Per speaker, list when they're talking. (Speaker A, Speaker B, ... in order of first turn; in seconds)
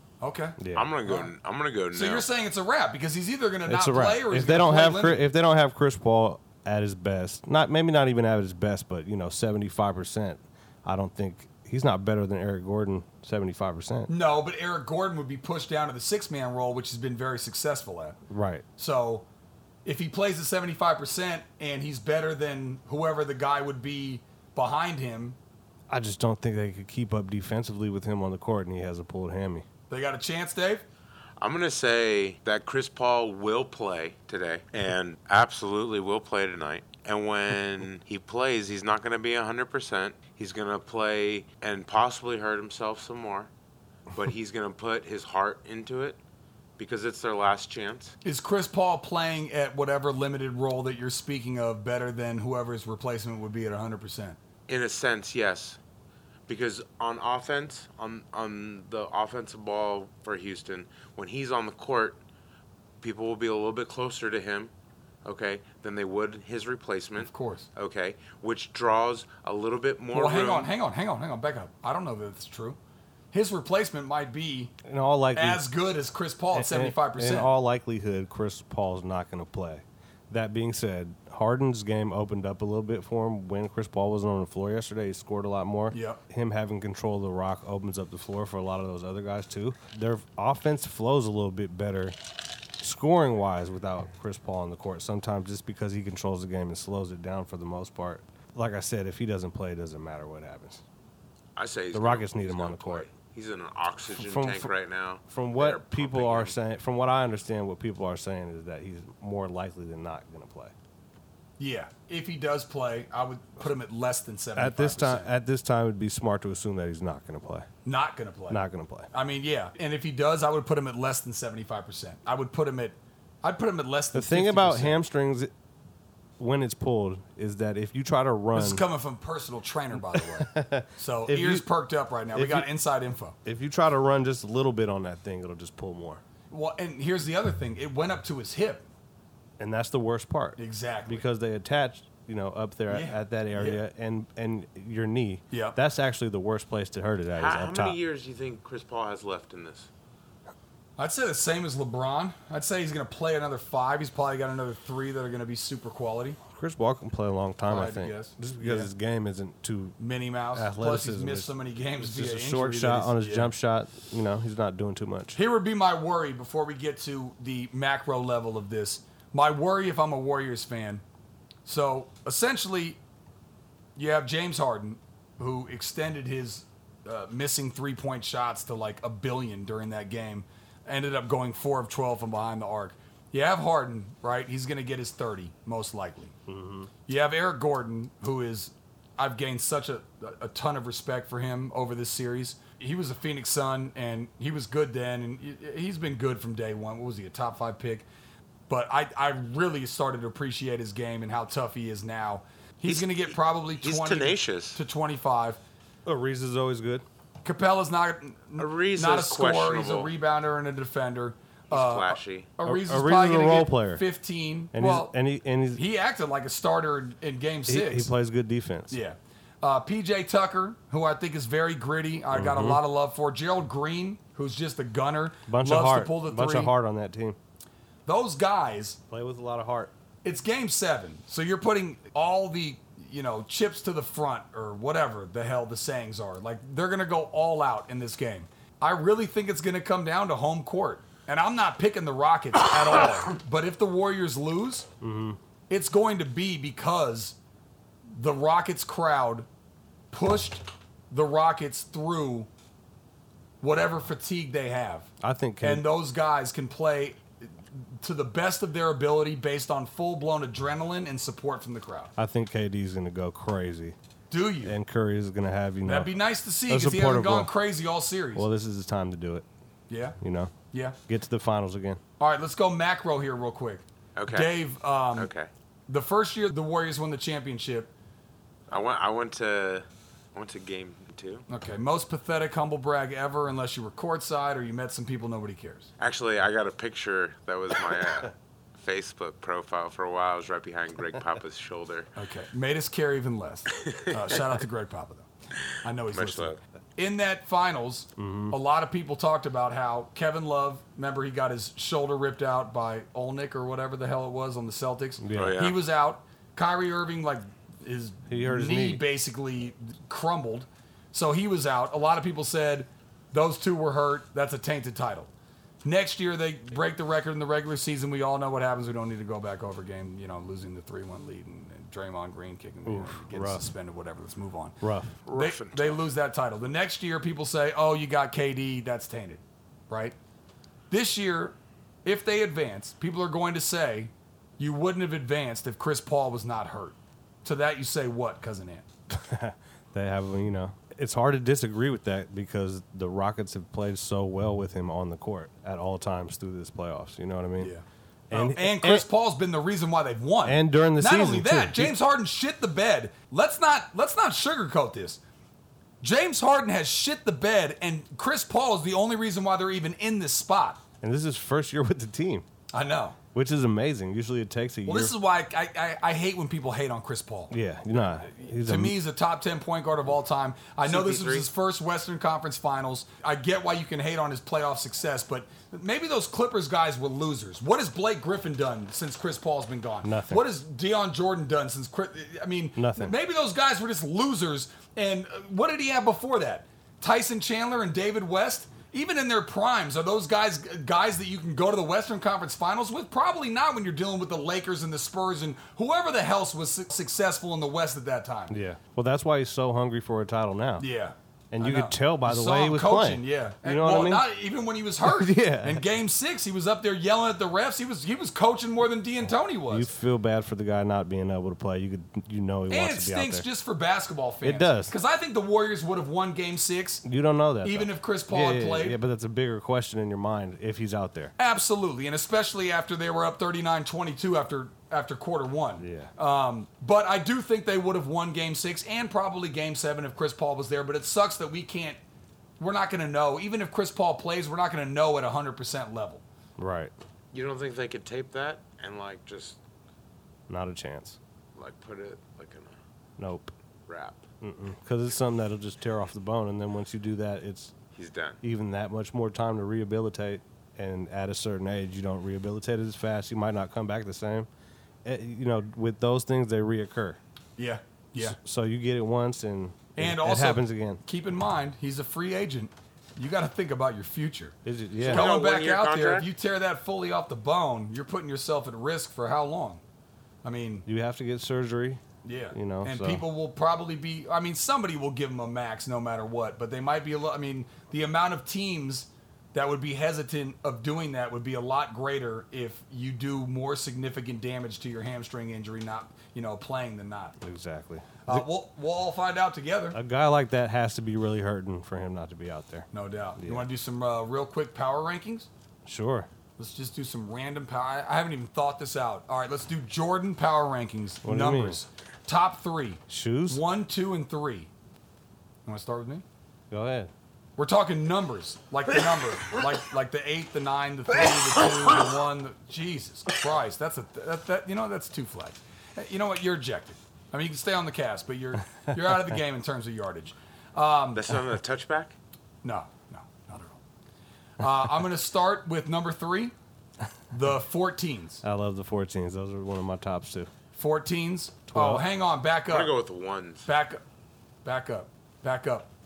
Speaker A: 0.2-1.3, 1.9-5.2, 14.1-18.2, 18.8-19.2, 19.8-25.4, 29.9-30.8, 48.2-54.4, 67.2-67.7, 70.1-72.8, 73.3-74.7, 75.3-77.5, 85.9-86.2, 111.6-115.3, 117.8-125.0, 128.5-133.3, 136.5-138.9, 140.6-141.2, 142.9-143.8, 145.5-145.8, 151.0-156.4, 157.7-158.9, 160.0-163.5, 165.3-171.0, 171.6-173.0, 173.9-186.3, 187.1-198.1, 198.7-205.6, 207.4-215.1, 215.7-218.1, 218.9-226.7, 228.1-229.0, 230.2-244.9, 245.7-247.3, 248.1-249.5, 250.1-252.5, 253.6-255.1, 255.6-262.1, 264.3-264.8, 265.8-268.5, 269.9-270.2, 270.7-271.0, 272.2-275.3, 275.9-277.9, 281.5-285.9, 292.1-295.3, 295.8-315.3, 315.8-324.8, 325.3-330.1, 330.9-338.8, 347.6-355.2, 356.0-360.8, 362.7-363.2, 364.9-367.5, 368.6-398.5, 400.8-409.9, 412.7-417.0, 417.6-419.0, 421.4-432.0, 432.6-436.2, 457.6-458.4, 459.9-469.8, 470.4-470.8, 472.2-487.4, 488.2-490.0, 492.9-495.5, 496.6-504.7, 505.6-506.2, 507.6-521.2, 522.6-523.8, 524.6-526.5, 527.3-528.4, 530.7-532.9, 533.6-534.0, 534.6-535.9
Speaker B: 0.6-0.9, 3.6-14.1, 18.3-18.6, 25.9-29.6, 74.8-75.7, 76.5-92.2, 92.8-100.8, 101.9-103.1, 104.1-104.7, 105.2-110.7, 114.5-117.7, 118.5-119.1, 124.1-125.5, 126.4-128.8, 130.0-131.6, 132.3-132.7, 133.4-136.2, 139.6-148.0, 156.5-160.0, 160.5-165.4, 186.5-186.9, 206.1-207.0, 212.6-214.0, 214.7-215.8, 217.7-219.0, 222.3-222.8, 225.5-227.4, 229.1-229.9, 245.0-245.4, 255.2-255.8, 262.2-263.9, 264.6-266.1, 266.7-267.5, 268.3-269.4, 270.2-270.5, 271.1-272.0, 298.2-298.6, 305.2-305.6, 308.3-309.0, 322.9-323.7, 324.8-325.2, 339.1-347.7, 348.3-349.1, 350.4-351.9, 361.0-362.4, 363.3-365.1, 367.5-369.0, 380.0-380.5, 382.8-383.1, 398.5-400.9, 401.5-404.2, 405.0-405.8, 409.7-413.5, 414.4-414.9, 417.0-421.3, 425.8-426.1, 436.6-436.9, 440.5-441.2, 443.2-443.5, 444.4-447.7, 448.4-454.5, 455.0-457.2, 458.1-461.0, 464.6-465.3, 470.9-472.0, 472.5-473.2, 487.4-488.4, 489.9-492.9, 493.4-493.7, 495.9-496.3, 501.2-501.8, 503.1-503.6, 506.7-507.1, 528.4-530.5, 531.7-532.0
Speaker C: 0.7-2.3, 31.4-43.5, 44.1-46.2, 46.8-48.1, 54.7-55.8, 56.5-62.2, 63.0-64.7, 65.2-70.7, 101.5-106.5, 147.3-149.9, 202.8-204.8, 208.6-210.1, 211.7-212.5, 274.1-274.6, 275.1-275.5, 278.7-281.4, 286.0-292.1, 296.1-296.6, 305.3-305.8, 325.2-326.0, 370.8-371.5, 437.3-439.6, 441.6-442.8, 443.9-444.2, 447.9-448.4, 465.0-466.3, 521.1-522.1, 532.7-533.7